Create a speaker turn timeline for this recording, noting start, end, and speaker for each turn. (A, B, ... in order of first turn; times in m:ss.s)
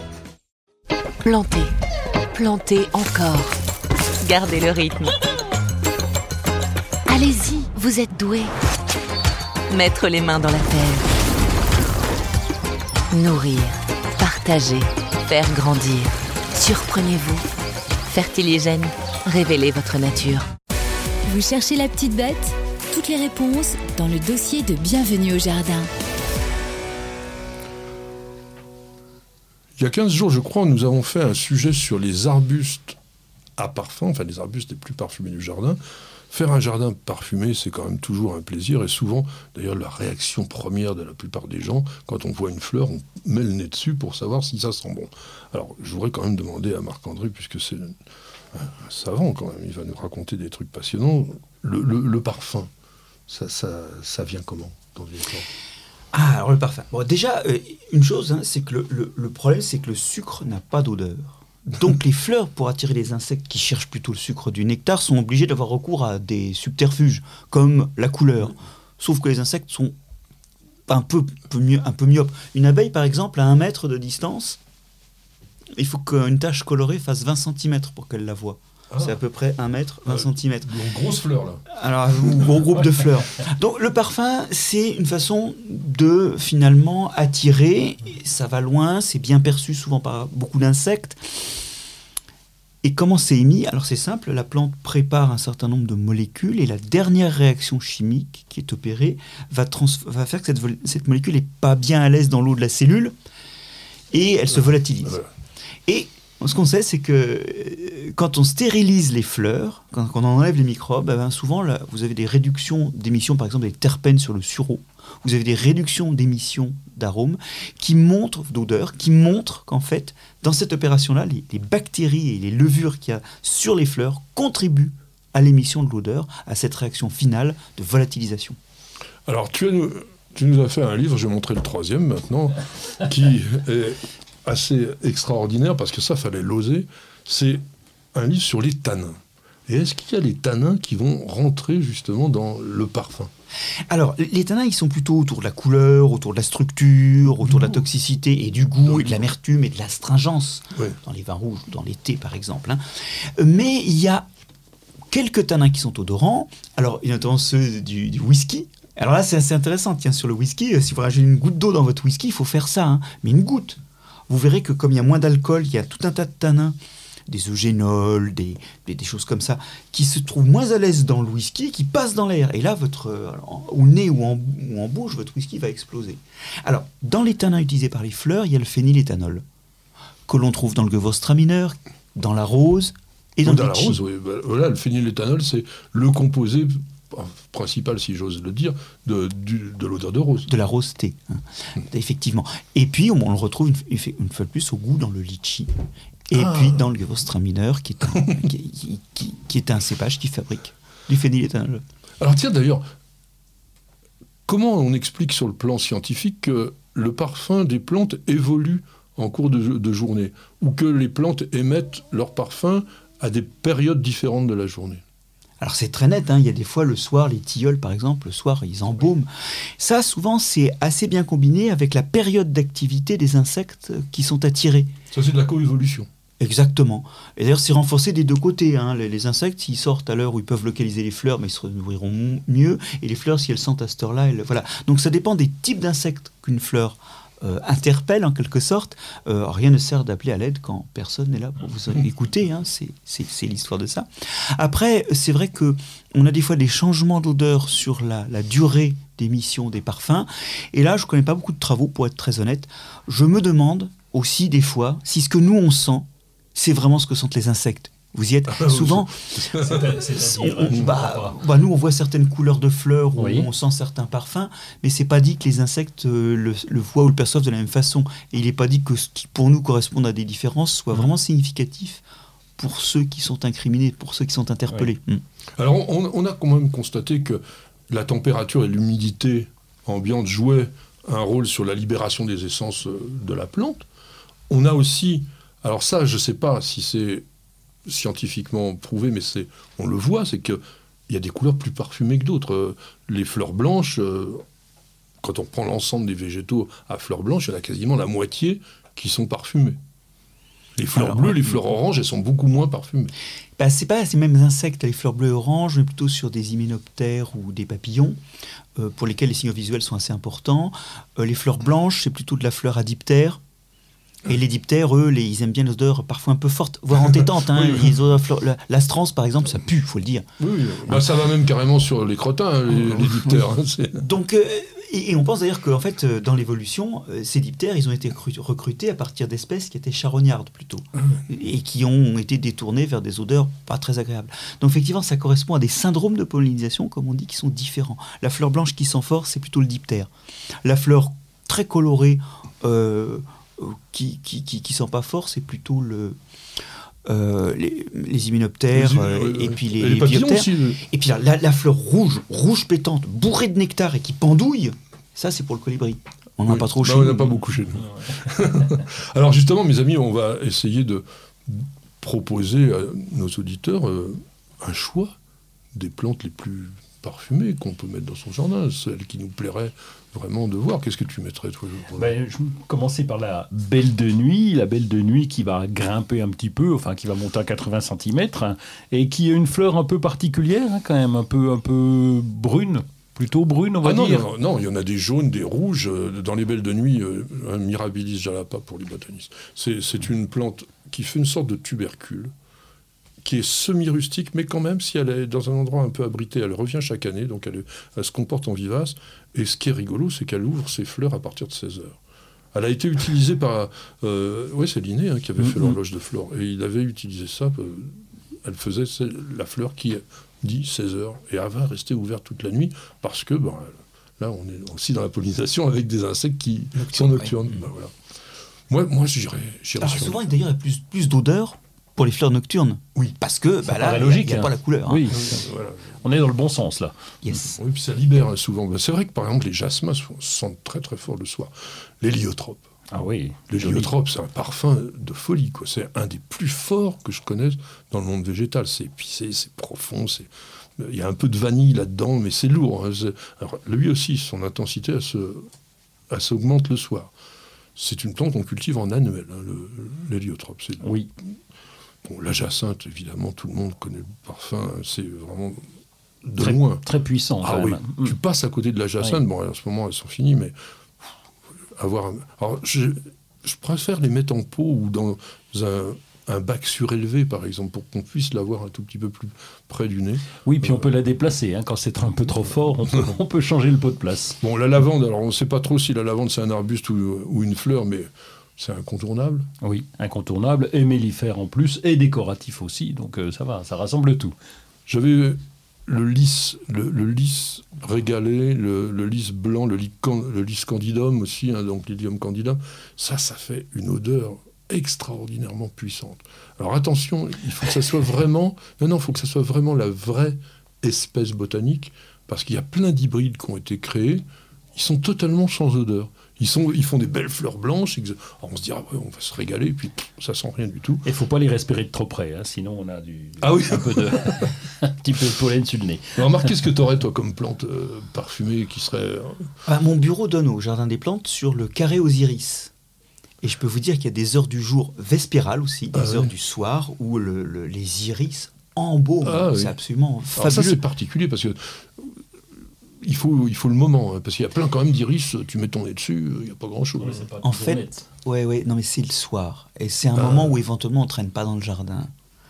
0:01.2-0:01.7 A
0:02.3-0:03.6 A
0:04.2-0:05.1 A
0:07.1-0:08.5 A
0:09.7-0:11.0 A
0:13.1-0:17.4 A
0:18.1-0:20.5 A
0:21.3-0:25.9 B
0:29.8-0:33.0 C
0:33.6-0:35.8 C
0:36.3-0:48.0 C
0:48.5-0:52.7 C
0:53.3-0:55.4 C
0:56.1-1:09.9 D
1:10.9-1:14.6 D
1:15.8-1:20.7 D
1:18.9-1:19.2 C
1:20.0-1:21.6 C
1:21.7-1:31.6 D
1:22.2-1:22.6 C
1:32.8-1:43.1 D
1:44.1-1:45.2 D
1:45.9-2:08.6 D
2:09.2-2:17.6 C
2:18.1-2:23.3 C
2:23.9-2:34.3 D
2:28.8-2:29.2 C
2:35.1-2:46.7 D
2:47.3-2:59.4 D
3:00.3-3:04.0 D
3:03.4-3:10.5 C
3:10.4-3:15.7 D
3:16.3-3:21.8 D
3:16.3-3:16.9 C
3:22.2-3:22.8 C
3:24.5-3:35.0 C
3:35.6-3:44.9 D
3:45.1-3:46.1 C
3:46.4-4:32.0 D
4:18.5-4:19.9 C
4:19.5-4:21.4 E
4:23.2-4:23.5 E
4:32.6-4:35.2 D
4:35.6-4:43.8 C
4:44.5-4:47.2 C
4:47.9-4:54.4 C
4:55.2-4:59.8 C
5:00.8-5:03.1 C
5:00.9-5:01.6 D
5:03.6-5:08.2 D
5:08.8-5:13.4 D
5:14.2-5:20.2 D
5:17.2-5:17.9 C
5:20.4-5:24.0 C
5:22.8-5:23.3 D
5:24.0-5:40.1 D
5:40.6-5:46.2 D
5:47.1-5:57.4 D
5:48.7-5:50.8 C
5:56.5-6:05.1 C
6:05.7-6:12.1 C
6:11.9-6:24.2 E
6:23.8-6:32.3 C
6:33.2-6:42.0 C
6:42.5-6:57.9 C
6:45.4-6:45.7 E
6:56.8-6:57.5 D
6:58.7-7:00.2 C
6:59.8-7:05.1 D
7:03.6-7:05.4 E
7:05.1-7:05.9 C
7:06.0-7:06.9 E
7:07.2-7:07.6 D
7:07.5-7:12.6 C
7:12.9-7:13.9 E
7:13.5-7:25.5 C
7:26.1-7:27.1 C
7:27.8-7:30.9 C
7:30.8-7:31.1 E
7:32.0-7:35.6 C
7:36.2-7:36.8 C
7:36.4-7:38.2 E
7:37.4-7:40.5 C
7:41.8-7:50.9 C
7:50.4-7:54.4 E
7:54.4-7:59.5 C
7:59.6-8:04.3 E
8:04.9-8:24.2 C
8:24.7-8:31.1 C
8:31.0-8:36.5 E
8:33.4-8:34.5 C
8:36.2-8:39.5 C
8:39.6-8:42.7 D
8:43.4-8:50.8 D
8:45.9-8:46.3 C
8:49.2-8:49.8 C
8:50.3-8:52.2 C
8:53.0-8:57.3 C
8:57.0-8:58.0 E
8:57.4-9:02.1 D
9:00.1-9:00.6 C